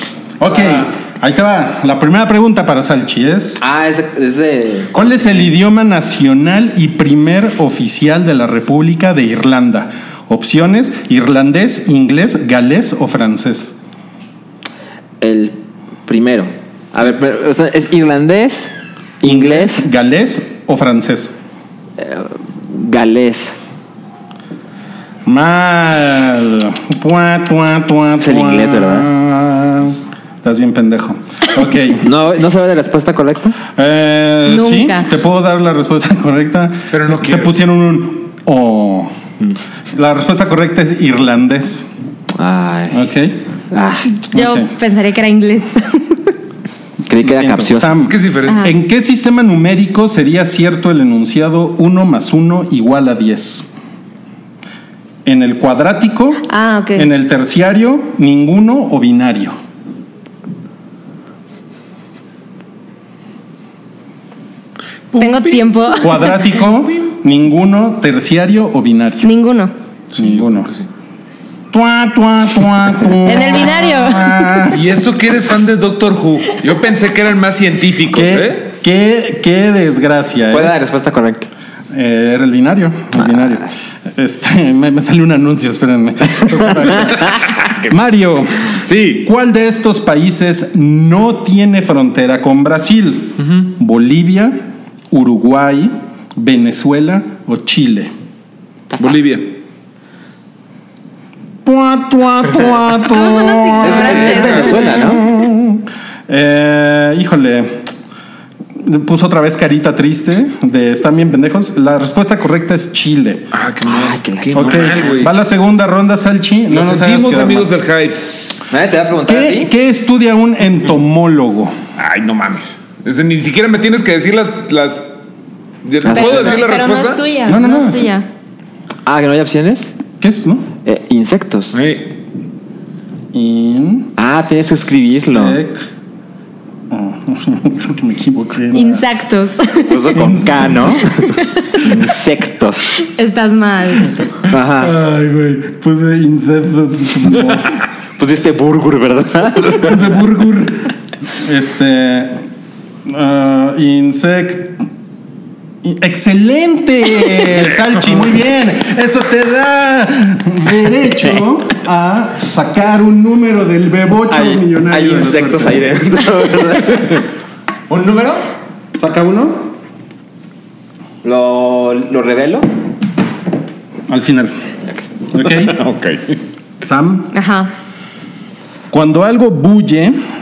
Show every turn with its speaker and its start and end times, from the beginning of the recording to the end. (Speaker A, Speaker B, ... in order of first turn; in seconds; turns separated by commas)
Speaker A: 0.4-3.6, Speaker B: 3.6-5.1, Speaker A: 4.9-13.8, Speaker B: 15.2-19.9, Speaker A: 19.2-21.3, Speaker B: 22.0-23.6, Speaker A: 25.2-32.0, Speaker B: 28.2-29.1, Speaker B: 32.0-33.6, Speaker A: 33.7-39.1, Speaker C: 34.5-35.1, Speaker D: 36.9-37.6, Speaker A: 39.9-41.9, Speaker B: 42.3-43.1, Speaker A: 42.9-43.4, Speaker B: 43.7-44.1, Speaker C: 44.1-46.3, Speaker A: 44.3-44.7, Speaker B: 47.0-47.9, Speaker A: 47.2-53.7, Speaker D: 48.0-48.7, Speaker C: 48.5-48.7, Speaker A: 55.2-59.5, Speaker C: 56.5-57.1, Speaker D: 65.1-66.7, Speaker C: 65.2-66.4, Speaker A: 66.0-69.3, Speaker C: 69.2-69.7, Speaker D: 70.1-70.8, Speaker A: 70.1-70.7, Speaker A: 71.7-74.9, Speaker C: 73.2-74.5, Speaker D: 74.7-78.6, Speaker A: 78.1-80.7, Speaker B: 80.5-81.5, Speaker A: 81.9-98.1, Speaker D: 88.8-89.2, Speaker D: 99.0-99.6, Speaker A: 101.6-107.9, Speaker C: 103.0-105.0, Speaker B: 103.8-105.2, Speaker D: 104.0-104.8, Speaker A: 108.8-113.5, Speaker D: 113.5-115.3, Speaker B: 113.8-115.1, Speaker A: 114.5-117.7, Speaker D: 116.7-118.3, Speaker B: 118.7-119.7, Speaker A: 119.3-121.8, Speaker D: 122.0-125.1, Speaker D: 125.8-127.2, Speaker B: 126.0-126.5, Speaker C: 126.1-128.2, Speaker A: 127.4-128.1, Speaker B: 129.1-129.9, Speaker A: 130.2-130.7, Speaker B: 130.8-131.8, Speaker D: 131.7-132.1, Speaker A: 133.3-134.1, Speaker B: 134.2-135.6, Speaker A: 134.8-135.8, Speaker A: 136.9-139.0, Speaker C: 138.7-140.3, Speaker B: 139.8-143.0, Speaker A: 140.1-141.1, Speaker C: 143.0-144.2, Speaker B: 144.5-144.9, Speaker A: 144.7-147.7, Speaker B: 148.2-150.0, Speaker A: 149.7-150.9, Speaker A: 151.4-152.4, Speaker A: 153.1-154.8, Speaker A: 155.8-166.0, Speaker B: 164.3-167.2, Speaker B: 167.9-168.4, Speaker A: 168.9-169.7, Speaker B: 171.2-172.7, Speaker A: 174.1-174.5, Speaker A: 175.3-175.8, Speaker D: 175.4-176.4, Speaker A: 176.8-177.3, Speaker C: 177.3-177.7, Speaker A: 178.9-180.2